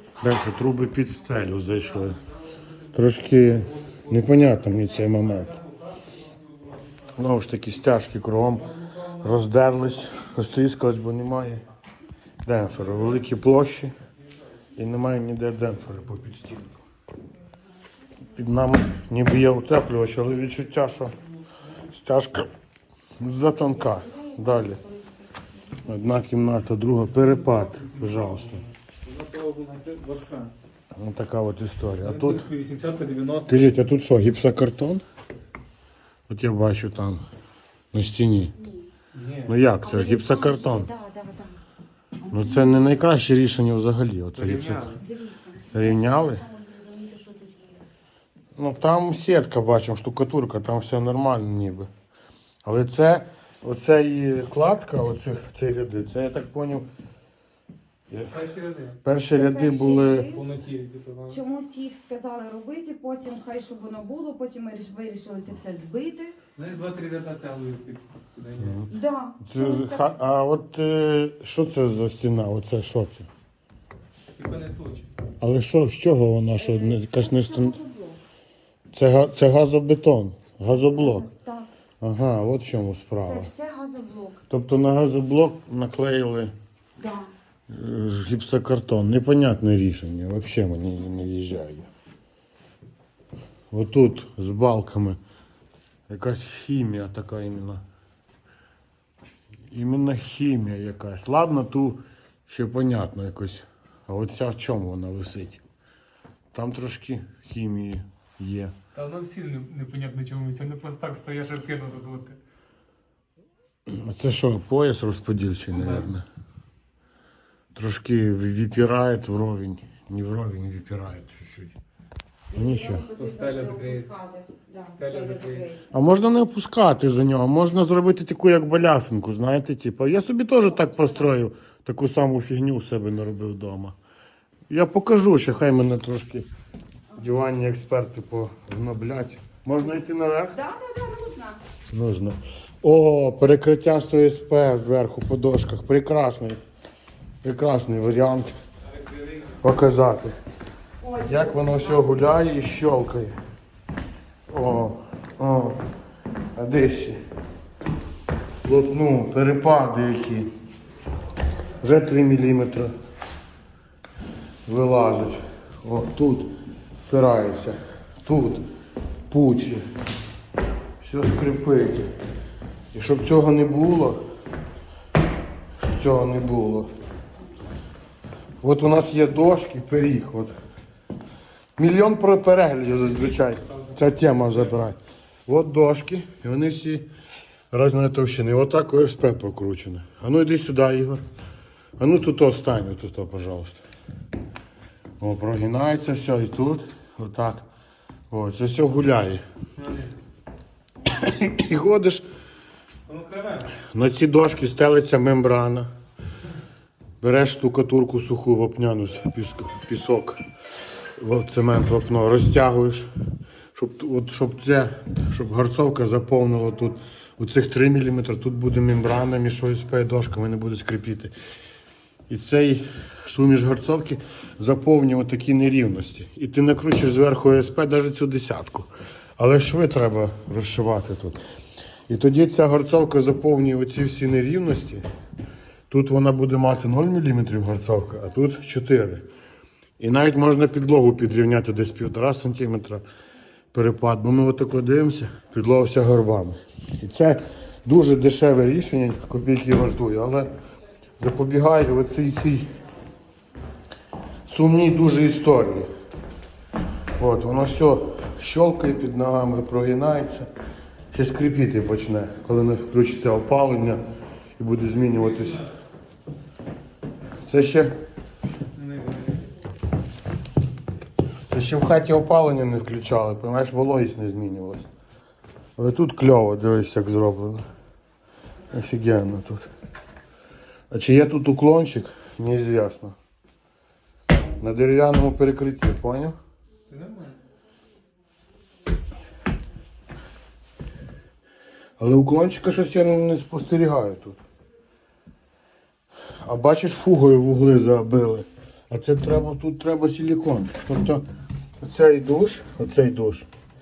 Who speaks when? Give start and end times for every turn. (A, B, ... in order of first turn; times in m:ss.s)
0:00.2-0:02.2 A
0:02.9-0:05.6 A
0:03.6-0:04.1 B
0:05.1-0:06.9 B
0:07.2-0:11.6 A
0:12.4-0:13.9 A
0:14.8-0:16.8 A
0:18.3-0:21.1 A
0:21.8-0:22.5 A
0:23.2-0:24.8 A
0:23.8-0:25.7 C
0:25.8-0:28.6 A
0:27.1-0:30.5 B
0:30.9-0:32.5 A
0:32.0-0:33.7 B
0:33.5-0:35.0 A
0:36.3-0:37.2 A
0:37.9-0:38.5 A
0:39.1-0:39.6 B
0:39.5-0:40.9 A
0:39.8-0:41.6 C
0:42.2-0:42.8 C
0:42.3-0:44.9 A
0:44.4-0:45.0 B
0:45.0-0:47.8 C
0:45.7-0:46.4 A
0:48.6-0:51.9 A
0:52.6-0:56.9 A
0:58.3-0:59.0 B
0:59.0-1:00.3 A
0:59.3-1:00.4 C
1:00.3-1:01.4 B
1:01.3-1:06.4 C
1:06.6-1:08.8 B
1:08.6-1:13.3 A
1:08.9-1:10.2 C
1:14.3-1:15.1 B
1:15.4-1:17.8 A
1:16.6-1:18.2 C
1:18.9-1:21.3 A
1:20.9-1:21.7 C
1:22.0-1:23.5 A
1:23.2-1:24.4 C
1:24.5-1:26.5 A
1:27.0-1:27.3 C
1:27.7-1:31.9 A
1:33.7-1:35.2 A
1:36.1-1:37.8 A
1:39.7-1:45.6 A
1:46.5-1:48.7 A
1:48.9-1:52.4 B
1:53.9-1:56.2 A
1:55.7-1:56.1 B
1:57.7-2:01.8 A
2:02.5-2:05.8 C
2:02.5-2:03.0 A
2:03.1-2:04.2 B
2:04.9-2:05.7 B
2:05.9-2:14.0 A
2:14.7-2:16.5 A
2:17.1-2:20.6 A
2:20.5-2:21.6 C
2:21.9-2:26.6 A
2:27.4-2:28.5 A
2:29.0-2:29.5 B
2:29.5-2:30.3 A
2:31.0-2:32.1 C
2:31.2-2:33.3 A
2:34.5-2:35.8 A
2:36.5-2:37.2 A
2:38.6-2:40.5 A
2:41.8-2:42.9 A
2:44.6-2:46.5 A
2:47.1-2:48.6 A
2:49.3-2:49.8 A
2:51.0-2:52.1 A
2:52.9-2:54.2 A
2:55.9-2:56.9 A
2:58.6-3:00.5 A
3:01.8-3:07.1 A
3:07.7-3:11.2 A
3:12.0-3:13.8 A
3:15.2-3:17.6 A
3:18.3-3:19.4 A
3:19.8-3:20.1 B
3:21.1-3:22.2 A
3:23.1-3:23.8 B
3:23.8-3:25.9 A
3:27.2-3:30.4 A
3:31.2-3:33.1 A
3:33.7-3:41.3 A
3:42.3-3:51.4 A
3:52.1-3:55.0 A
3:55.9-3:59.2 A
4:00.0-4:03.0 A
4:03.7-4:10.5 A
4:11.2-4:12.7 A
4:14.5-4:15.9 A
4:17.2-4:20.5 A
4:21.1-4:24.0 A
4:24.6-4:25.7 A
4:25.4-4:25.6 B
4:27.4-4:28.0 A
4:28.7-4:29.5 B
4:31.5-4:34.9 A
4:35.8-4:37.6 A
4:38.7-4:39.7 A
4:40.9-4:43.2 A
4:44.6-4:46.4 A
4:46.9-4:47.4 B
4:52.0-4:54.4 A
4:56.4-5:01.2 A
5:01.8-5:03.5 A